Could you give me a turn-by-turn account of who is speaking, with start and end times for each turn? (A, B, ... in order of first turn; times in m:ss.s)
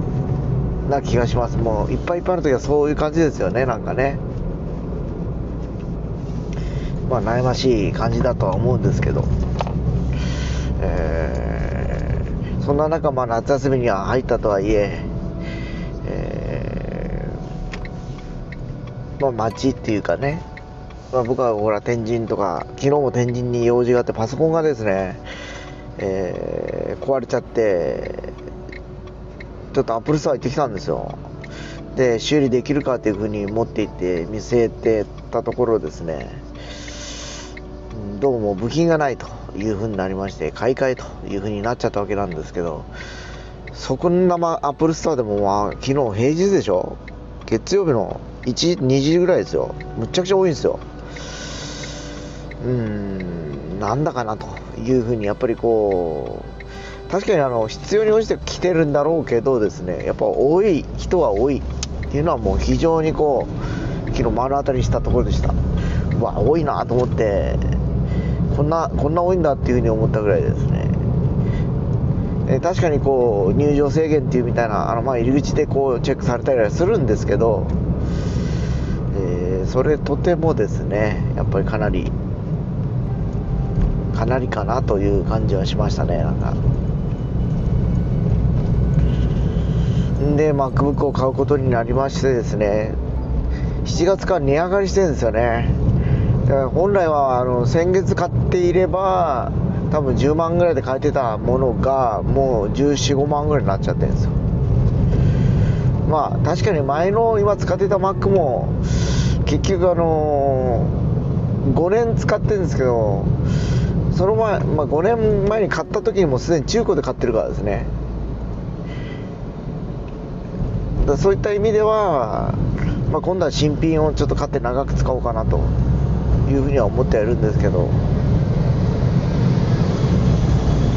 0:00.8-0:04.2 A
0:07.0-0:09.3 A
0:10.8-0:15.1 A
0:16.0-0:17.5 A
0:19.2-0:20.4 A
0:21.1-0:25.2 A
0:26.0-0:28.3 A
0:29.7-0:31.2 A
0:31.9-0:37.0 A
0:37.9-0:42.9 A
0:43.7-0:50.8 A
0:52.6-0:56.6 A
0:57.1-1:03.5 A
1:04.1-1:05.6 A
1:06.1-1:07.8 A
1:08.5-1:11.0 A
1:12.4-1:17.8 A
1:19.1-1:22.1 A
1:24.1-1:26.6 A
1:30.2-1:33.0 A
1:33.8-1:35.8 A
1:36.4-1:44.4 A
1:46.0-1:51.0 A
1:51.6-1:53.3 A
1:54.1-1:57.9 A
2:01.0-2:05.7 A
2:06.4-2:08.0 A